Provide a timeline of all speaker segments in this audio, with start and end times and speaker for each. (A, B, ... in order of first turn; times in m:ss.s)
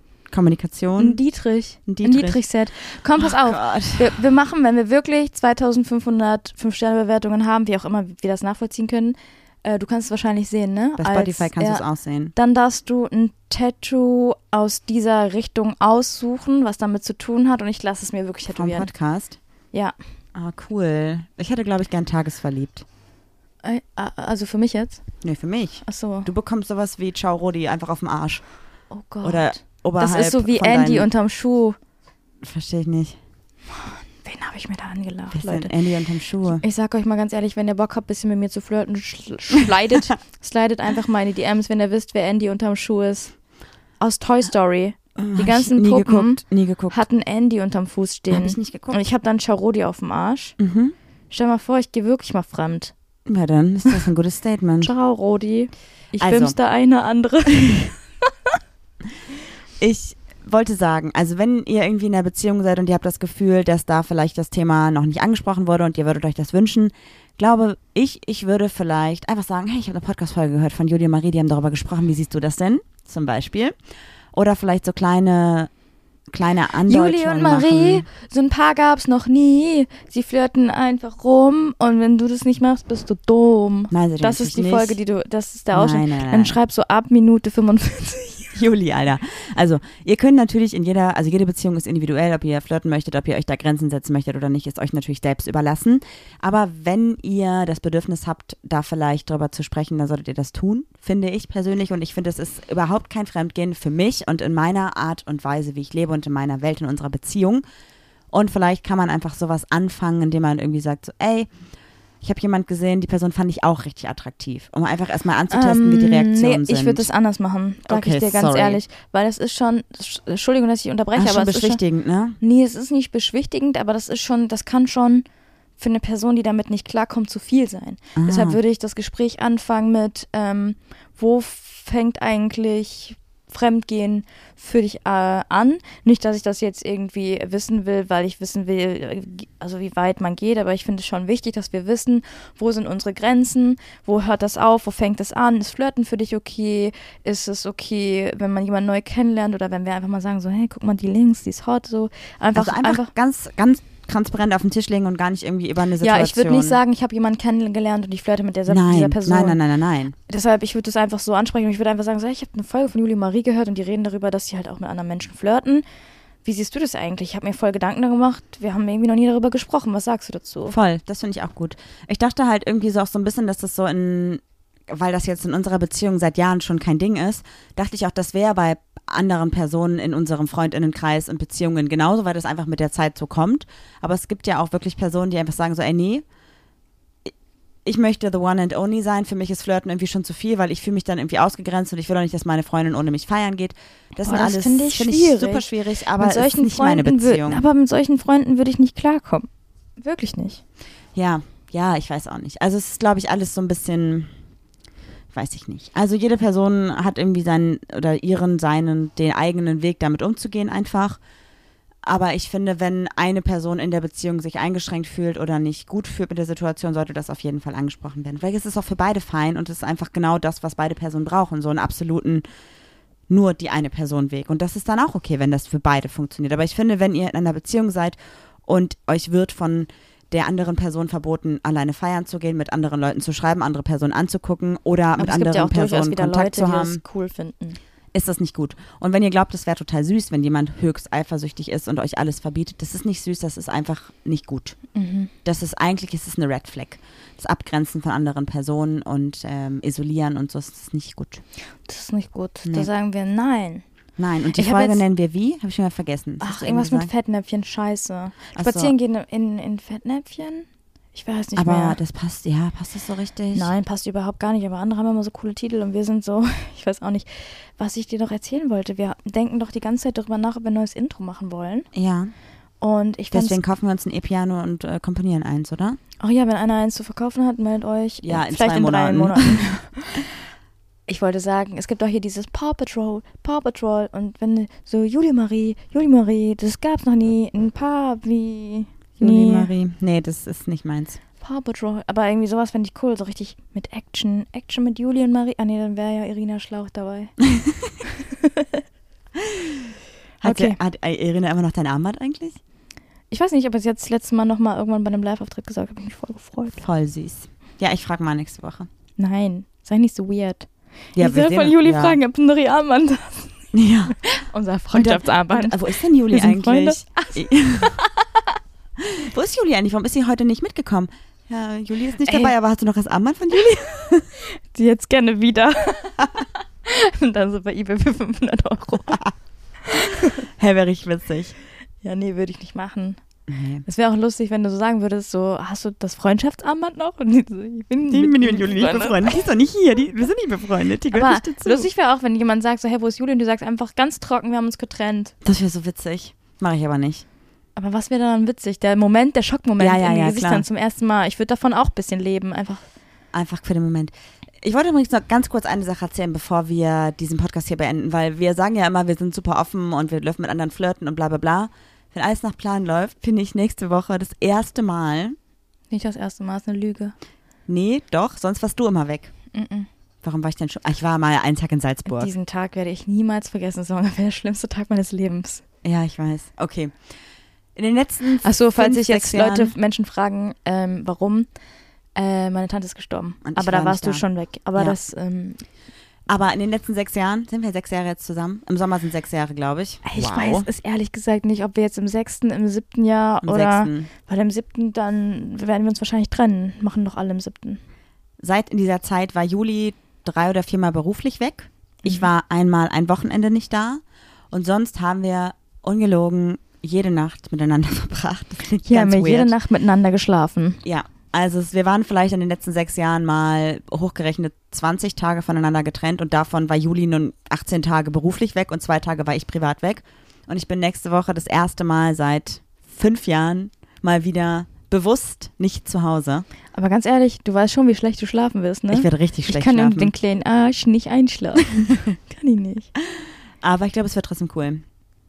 0:00.3-0:04.3 A
0:01.0-0:18.9 B
0:11.0-0:12.3 A
0:18.5-0:19.4 A
0:20.4-0:22.8 A
0:23.6-0:25.1 B
0:25.2-0:28.5 A
0:25.8-0:26.3 B
0:28.9-0:31.8 B
0:29.2-0:31.1 A
0:32.4-0:33.2 A
0:33.8-0:35.8 B
0:35.3-0:36.6 A
0:36.5-0:43.4 B
0:44.0-0:50.6 B
0:45.2-0:47.0 A
0:48.3-0:49.0 A
0:50.6-0:50.9 A
0:51.3-0:52.9 B
0:53.3-0:54.9 A
0:54.8-0:58.0 B
0:56.2-0:56.6 A
0:59.8-1:13.8 A
1:14.3-1:15.7 A
1:16.3-1:18.1 A
1:16.9-1:28.6 B
1:23.9-1:25.0 A
1:25.7-1:26.6 A
1:28.5-1:47.6 A
1:48.3-1:51.5 A
1:52.2-1:57.1 A
1:55.5-2:01.8 B
1:57.9-1:58.8 A
2:01.2-2:02.4 A
2:02.4-2:05.3 B
2:05.8-2:33.1 B
2:08.2-2:08.6 A
2:32.6-2:36.8 A
2:36.0-2:39.6 B
2:38.7-2:40.2 A
2:40.3-2:45.8 B
2:46.4-2:50.8 B
2:50.7-3:06.2 A
3:07.8-3:17.7 A
3:14.2-3:20.6 B
3:21.1-3:24.3 A
3:25.3-3:31.2 A
3:32.0-3:42.4 A
3:43.3-3:57.0 A
3:55.2-3:57.8 B
3:58.1-4:04.8 A
4:05.0-4:05.3 B
4:05.4-4:11.4 A
4:11.8-4:13.8 B
4:14.2-4:17.1 A
4:14.5-4:15.0 B
4:16.4-4:22.0 B
4:18.5-4:18.9 A
4:21.6-4:23.7 A
4:23.5-4:31.9 B
4:31.9-4:32.3 A
4:32.8-4:33.6 B
4:33.3-4:36.0 A
4:36.2-4:40.3 B
4:38.2-4:39.8 A
4:41.1-4:49.7 B
4:49.2-4:51.2 A
4:51.4-4:57.4 B
4:59.4-4:59.9 A
5:00.4-5:02.6 A
5:00.4-5:00.8 B
5:03.3-5:06.8 B
5:06.7-5:08.9 A
5:09.2-5:13.6 B
5:11.2-5:12.2 A
5:13.7-5:14.2 A
5:14.2-5:18.3 B
5:14.9-5:17.9 A
5:19.0-5:24.3 A
5:22.2-5:22.5 B
5:24.7-5:29.3 B
5:30.6-5:31.6 A
5:32.0-5:33.2 B
5:33.5-5:33.8 A
5:33.8-5:39.4 B
5:38.1-5:41.9 A
5:41.1-5:45.3 B
5:45.4-5:47.2 A
5:47.8-5:52.8 B
5:49.8-5:50.6 A
5:53.3-6:05.4 A
6:05.9-6:07.2 B
6:07.7-6:09.3 A
6:09.5-6:09.9 B
6:10.2-6:12.3 A
6:12.1-6:15.6 B
6:15.8-6:17.0 A
6:17.8-6:19.7 A
6:18.4-6:21.5 B
6:22.2-6:25.6 B
6:23.4-6:25.0 A
6:26.3-6:30.7 A
6:30.0-6:37.8 B
6:33.4-6:34.1 A
6:38.4-6:49.5 A
6:42.0-6:42.3 B
6:48.8-6:50.8 B
6:50.8-7:06.5 A
7:06.7-7:12.9 B
7:08.9-7:10.1 A
7:13.2-7:14.8 A